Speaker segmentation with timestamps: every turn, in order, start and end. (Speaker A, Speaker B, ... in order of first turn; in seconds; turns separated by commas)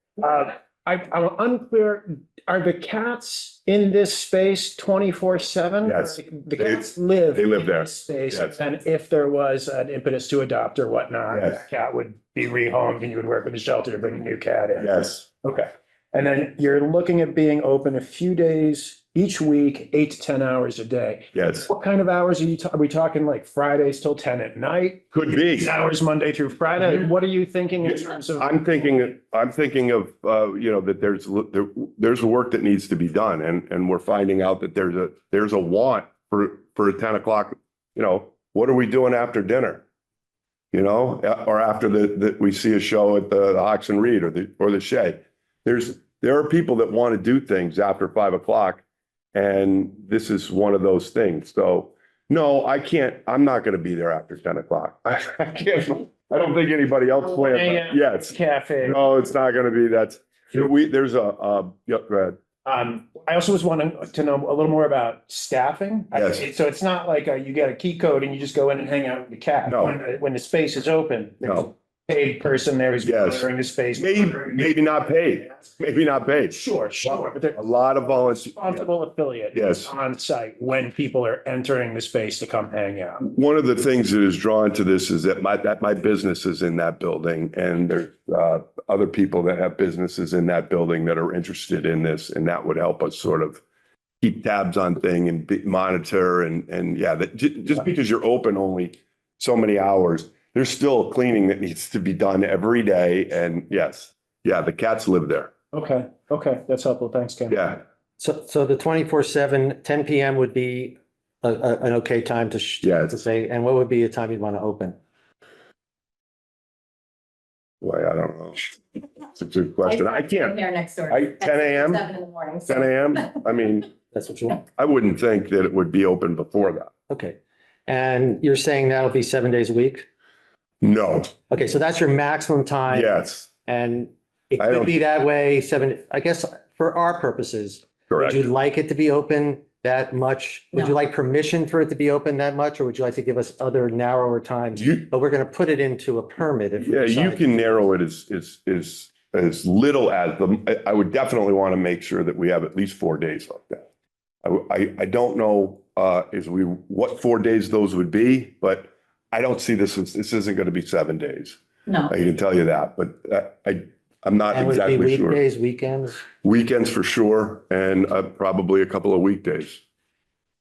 Speaker A: 0.2-14.9, Speaker B: 5.8-8.6, Speaker B: 11.3-11.6, Speaker B: 14.8-15.3, Speaker A: 15.4-29.0, Speaker B: 21.3-21.6, Speaker B: 25.1-25.7, Speaker B: 27.8-39.8, Speaker B: 40.7-48.8, Speaker B: 49.3-62.4, Speaker A: 57.2-59.0, Speaker A: 62.6-74.7, Speaker B: 66.1-66.5, Speaker B: 69.7-70.0, Speaker B: 71.4-71.7, Speaker B: 73.0-78.8, Speaker A: 76.5-83.3, Speaker B: 79.5-79.9, Speaker B: 83.2-93.6, Speaker B: 94.2-105.5, Speaker A: 105.7-107.6, Speaker B: 107.5-107.8, Speaker C: 108.2-115.0, Speaker B: 112.8-113.2, Speaker B: 117.8-118.6, Speaker B: 119.3-122.1, Speaker D: 119.8-122.8, Speaker B: 122.7-123.9, Speaker C: 124.1-124.6, Speaker B: 124.8-126.9, Speaker C: 127.1-130.1, Speaker B: 130.8-131.3, Speaker C: 131.5-133.1, Speaker B: 132.9-133.5, Speaker C: 133.7-147.8, Speaker B: 134.6-135.0, Speaker B: 138.1-138.4, Speaker B: 144.8-145.1, Speaker B: 146.8-153.8, Speaker B: 154.4-165.4, Speaker C: 164.5-166.2, Speaker B: 166.4-169.8